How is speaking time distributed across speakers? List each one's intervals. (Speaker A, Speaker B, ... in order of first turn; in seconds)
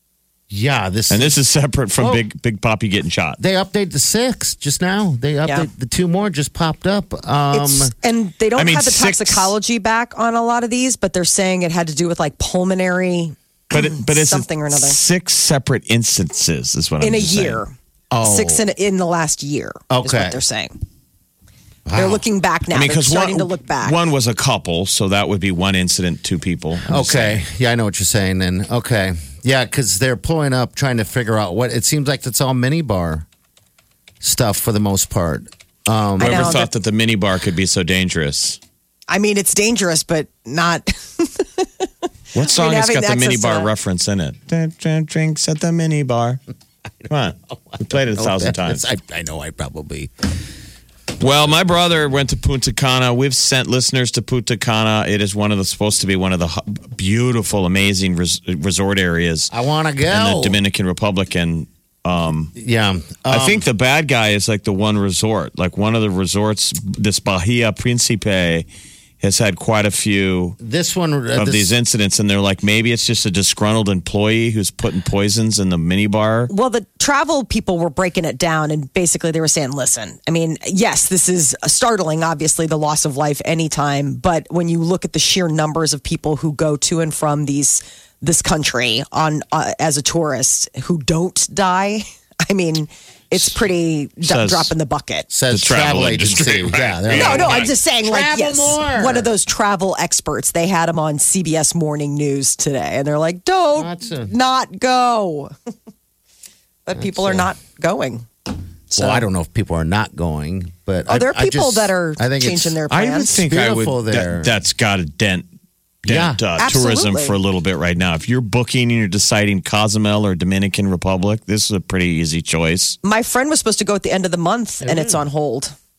Speaker A: 0.5-1.4, 3.4-7.9, 18.1-18.6, 19.9-20.4, 21.9-22.2, 26.9-33.2, 34.2-36.6, 47.7-50.1, 59.5-60.6, 62.5-63.6, 70.6-71.7, 95.3-99.3, 103.7-104.3, 106.9-107.5, 109.0-114.5, 116.0-116.4, 124.8-125.2
Speaker B: 1.1-3.4, 8.5-9.5, 13.7-17.6, 22.7-27.4, 36.2-38.6, 42.3-46.4, 47.1-48.8, 51.2-59.5, 60.1-62.5, 63.3-68.7, 69.2-70.6, 71.3-76.5, 93.3-93.6, 94.2-94.7, 95.5-97.7, 112.9-115.5, 116.0-123.0
Speaker C: 7.5-15.0, 17.0-20.8, 21.9-24.0, 36.2-36.7, 39.1-43.7, 76.5-95.3, 97.1-105.5, 106.8-108.3, 108.9-109.2, 111.1-113.4, 116.6-117.4, 123.0-125.7